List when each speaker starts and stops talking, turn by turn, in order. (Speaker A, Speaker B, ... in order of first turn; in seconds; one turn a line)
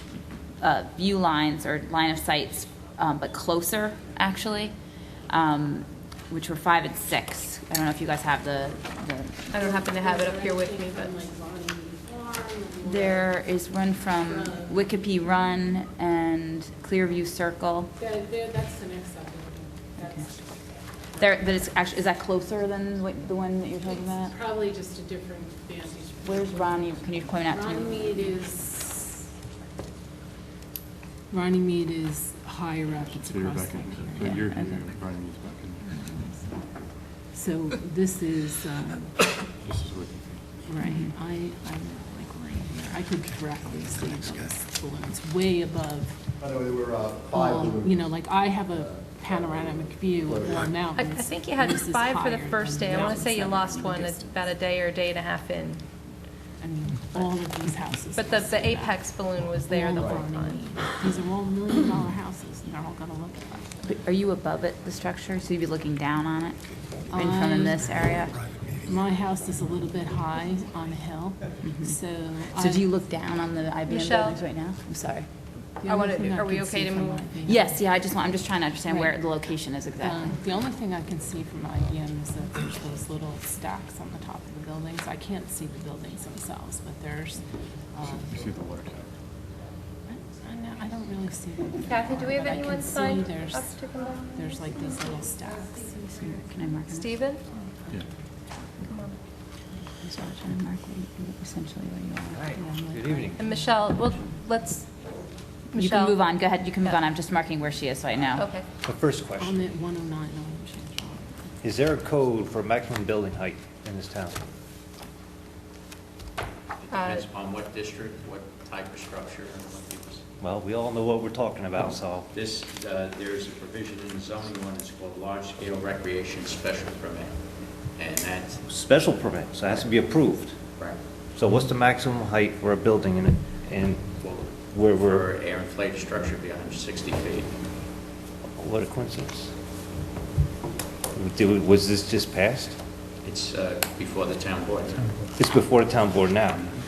Speaker A: 0.6-4.7
Speaker A: 5.3-9.6
Speaker B: 9.5-11.1
Speaker C: 9.6-13.3
Speaker A: 12.8-17.9
Speaker C: 14.3-14.8
Speaker C: 18.0-20.3
Speaker A: 20.0-20.3
Speaker A: 21.2-24.4
Speaker C: 24.0-26.9
Speaker A: 26.2-28.3
Speaker C: 27.5-29.2
Speaker C: 31.3-34.5
Speaker D: 33.1-35.9
Speaker A: 34.4-34.8
Speaker C: 35.8-36.7
Speaker C: 37.3-39.1
Speaker D: 39.6-40.6
Speaker C: 40.7-46.2
Speaker A: 40.8-41.1
Speaker E: 46.4-48.0
Speaker C: 47.3-54.4
Speaker E: 48.7-50.8
Speaker B: 50.9-55.8
Speaker C: 56.6-63.7
Speaker B: 58.1-60.6
Speaker E: 60.0-60.3
Speaker A: 63.8-66.6
Speaker C: 67.1-67.8
Speaker A: 67.1-68.4
Speaker C: 68.8-72.9
Speaker A: 71.6-72.0
Speaker A: 72.5-75.3
Speaker B: 73.9-74.4
Speaker C: 75.8-77.8
Speaker B: 75.8-77.2
Speaker A: 77.5-80.3
Speaker C: 78.9-79.2
Speaker C: 80.0-87.4
Speaker C: 87.9-88.4
Speaker D: 88.0-89.2
Speaker C: 90.1-96.5
Speaker B: 91.8-96.3
Speaker A: 96.2-97.1
Speaker B: 96.9-97.4
Speaker C: 97.5-98.0
Speaker B: 98.8-99.2
Speaker A: 100.0-102.5
Speaker F: 102.3-103.7
Speaker C: 102.6-103.6
Speaker B: 103.4-104.9
Speaker B: 105.7-106.2
Speaker A: 105.8-108.5
Speaker B: 108.3-108.7
Speaker F: 108.8-109.7
Speaker C: 109.4-111.6
Speaker F: 111.6-114.5
Speaker G: 116.8-120.2
Speaker B: 116.9-117.3
Speaker F: 120.4-122.3
Speaker G: 122.3-127.3
Speaker G: 128.0-128.6
Speaker F: 128.7-130.6
Speaker F: 131.3-134.0
Speaker G: 134.2-137.5
Speaker F: 134.7-135.3
Speaker F: 138.6-139.5
Speaker F: 141.2-142.8
Speaker G: 143.2-145.1
Speaker F: 145.4-146.6